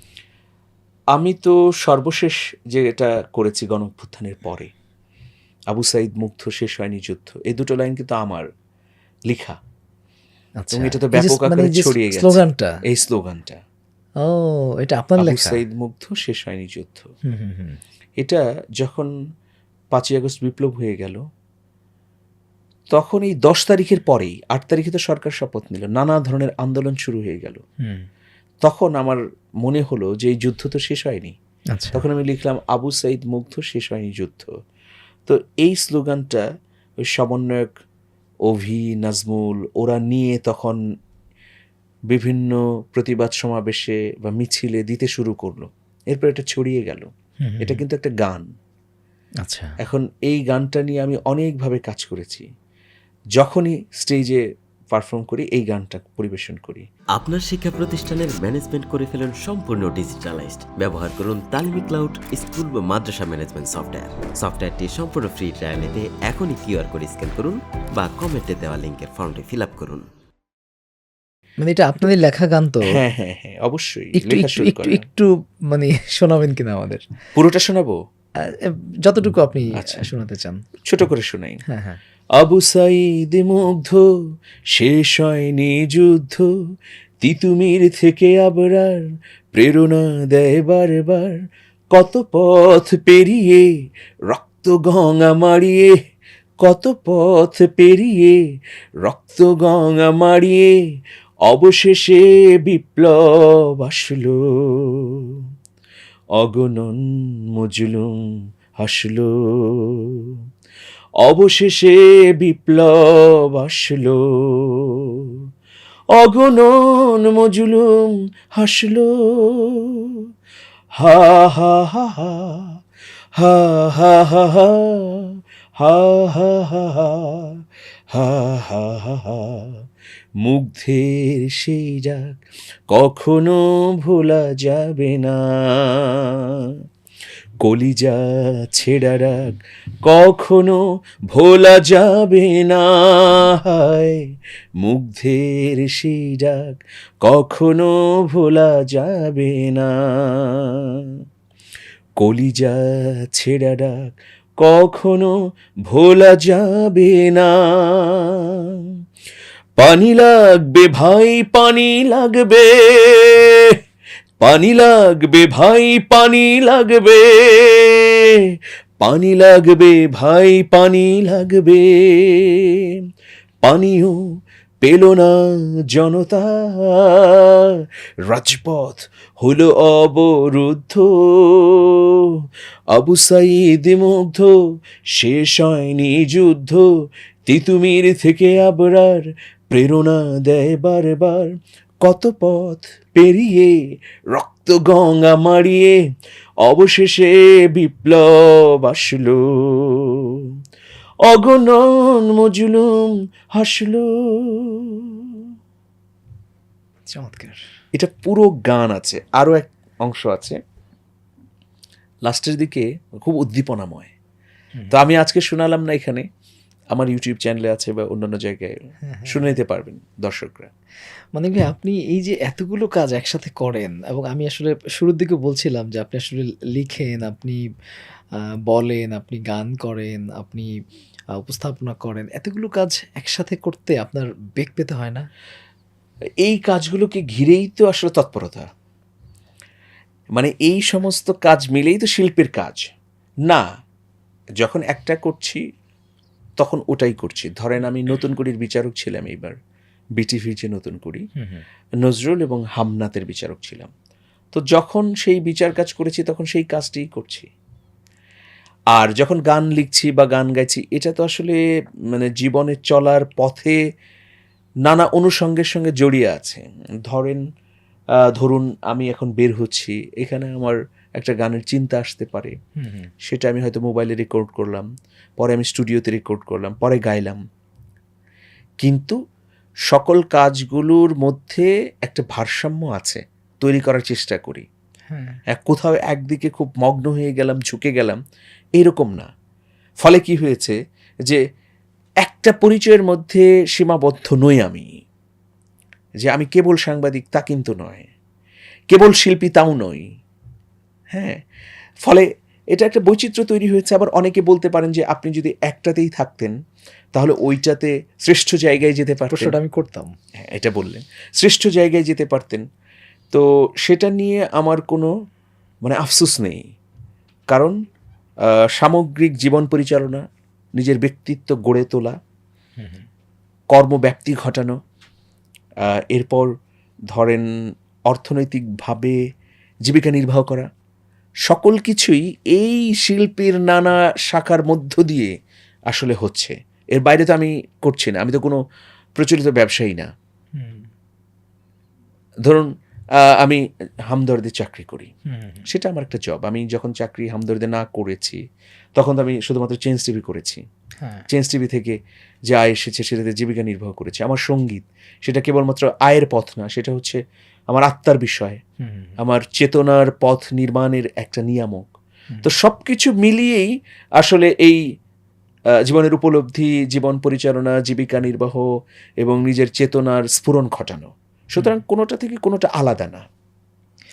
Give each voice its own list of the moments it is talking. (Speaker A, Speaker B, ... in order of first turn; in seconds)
Speaker A: 1.1-4.7, 5.7-8.4, 9.3-9.6, 10.7-13.6, 15.2-17.1, 18.2-19.1, 19.9-21.2, 22.9-27.6, 28.6-31.4, 31.9-34.5, 35.2-36.4, 37.0-37.7, 38.5-40.8, 42.1-47.1, 47.6-48.5, 49.8-52.5, 53.4-56.8, 72.9-75.0, 77.3-78.0, 79.8-80.0, 80.9-81.6, 82.4-84.0, 84.7-86.5, 87.2-89.0, 89.5-91.4, 91.9-93.7, 94.3-95.9, 96.6-98.4, 99.0-100.8, 101.5-105.4, 106.4-108.2, 108.8-110.4, 111.2-115.3, 116.2-120.2, 121.0-122.7, 123.4-127.6, 128.1-129.8, 130.4-132.4, 132.9-136.3, 137.6-144.2, 144.8-150.7, 152.2-155.3, 155.9-158.5, 159.8-163.7, 164.4-168.4, 169.0-172.9, 173.6-174.2, 174.8-175.3, 175.9-177.7, 178.3-182.1, 182.9-184.5, 185.2-186.8, 187.5-191.5, 192.0-193.8, 194.3-196.0, 196.6-200.3, 201.3-205.4, 207.9-210.6, 212.2-214.1, 214.9-216.2, 216.9-220.7, 236.4-238.7, 240.3-242.9, 244.6-245.6, 246.6-249.6, 250.2-251.2, 252.0-253.9, 254.5-257.5, 258.9-261.6, 262.1-263.8, 264.8-267.4, 268.2-272.5, 273.2-274.9, 275.4-277.4, 278.8-279.2, 279.9-284.7, 285.5-288.2, 288.8-289.3, 290.0-291.4, 292.2-294.9, 296.2-298.1, 298.9-300.0, 301.1-301.4, 302.0-306.6, 307.1-309.6, 310.4-312.6, 313.3-315.1, 315.8-316.7, 318.8-320.2, 320.8-322.1, 323.7-324.8, 325.9-326.5, 327.1-327.4, 328.1-329.2, 329.9-330.7, 331.4-335.3, 335.9-338.6, 339.2-340.1, 343.4-345.1, 345.7-348.4, 348.9-350.6, 351.3-352.0, 352.5-358.6, 359.2-361.9, 362.4-364.8, 365.8-368.6, 369.2-373.2
Speaker B: 10.6-12.7, 14.2-15.6, 17.3-17.8, 31.7-32.0, 47.4-47.8, 49.4-49.7, 71.6-72.9, 74.2-77.0, 78.5-80.6, 81.7-82.0, 207.1-207.6, 219.1-219.5, 221.3-227.6, 228.7-230.7, 231.3-235.2, 251.4-251.6, 272.8-273.1, 285.1-285.4, 309.3-310.1, 322.8-323.1, 340.6-340.9, 345.3-345.7, 358.8-359.1
Speaker C: 57.1-70.0